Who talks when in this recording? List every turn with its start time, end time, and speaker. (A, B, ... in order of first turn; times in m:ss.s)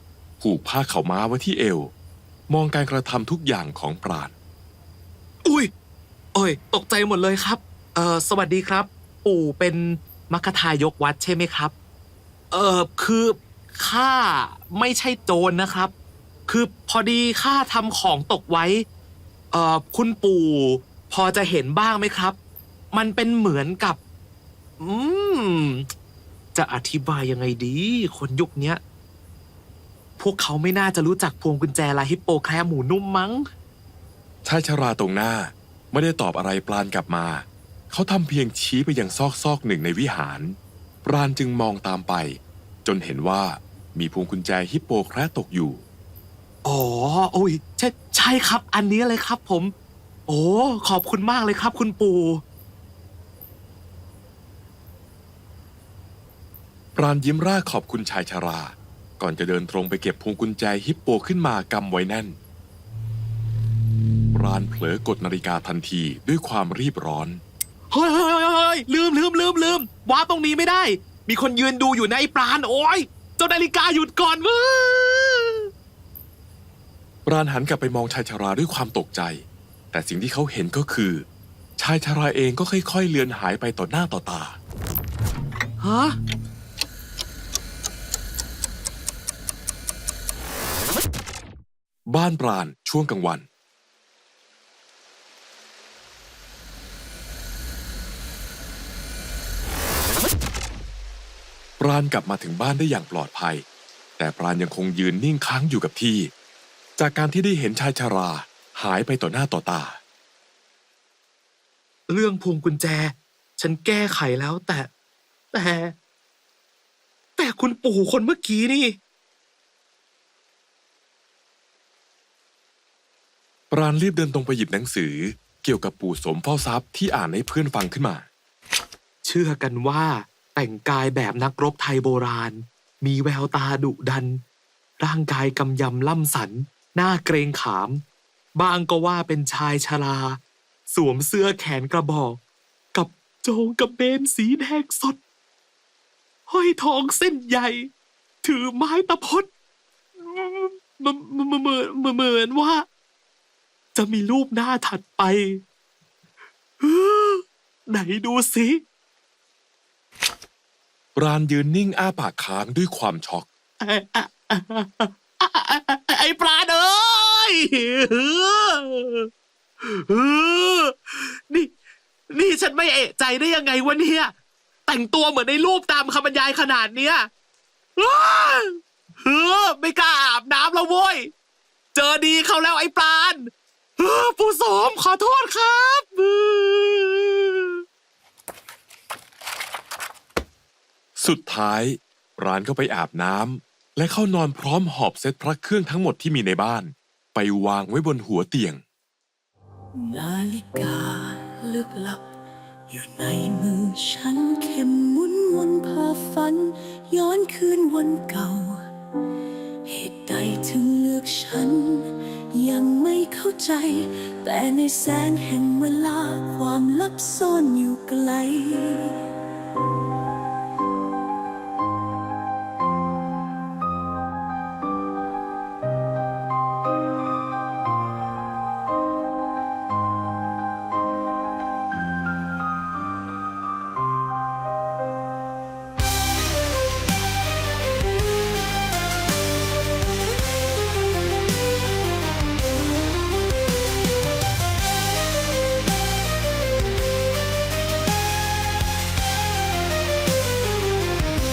0:00.4-0:01.9 A
0:02.5-0:04.3 A
0:05.4-0:05.7 B
0:06.3-0:11.7 B
0:12.5-0:15.9 B
0:16.5-0:18.8 B
0:19.5-0:22.4 B
0:22.9-0:24.0 B
0:24.8-0:25.9 B
0:26.5-0:28.8 B
0:30.2-0:33.5 B
0:34.4-0:45.8 A
0:46.6-0:49.7 B
0:50.3-0:52.4 B
0:56.9-1:02.4 A
1:04.3-1:07.4 A
1:07.9-1:15.7 B
1:17.2-1:21.2 A
1:21.8-1:24.6 A
1:25.8-1:26.2 B
1:32.1-1:33.4 A
1:41.8-1:43.6 A
1:44.2-1:46.3 A
1:47.0-1:50.0 A
1:52.1-1:54.9 B
1:55.5-1:55.9 B
1:57.4-1:59.0 B
2:03.7-2:08.2 A
2:09.2-2:14.4 B
2:15.0-2:18.0 B
2:18.6-2:22.4 B
2:22.9-2:25.2 B
2:26.5-2:27.9 B
2:28.4-2:29.5 B
2:30.2-2:32.8 B
2:34.0-2:35.6 B
2:36.8-2:38.8 B
2:41.1-2:43.5 A
2:43.8-2:49.3 B
2:49.8-2:51.7 B
2:52.3-2:54.3 B
2:54.9-2:57.3 B
2:58.0-3:01.3 B
3:01.9-3:07.8 B
3:11.2-3:18.8 A
3:20.0-3:22.3 C
3:22.9-3:28.8 C
3:29.8-3:39.2 C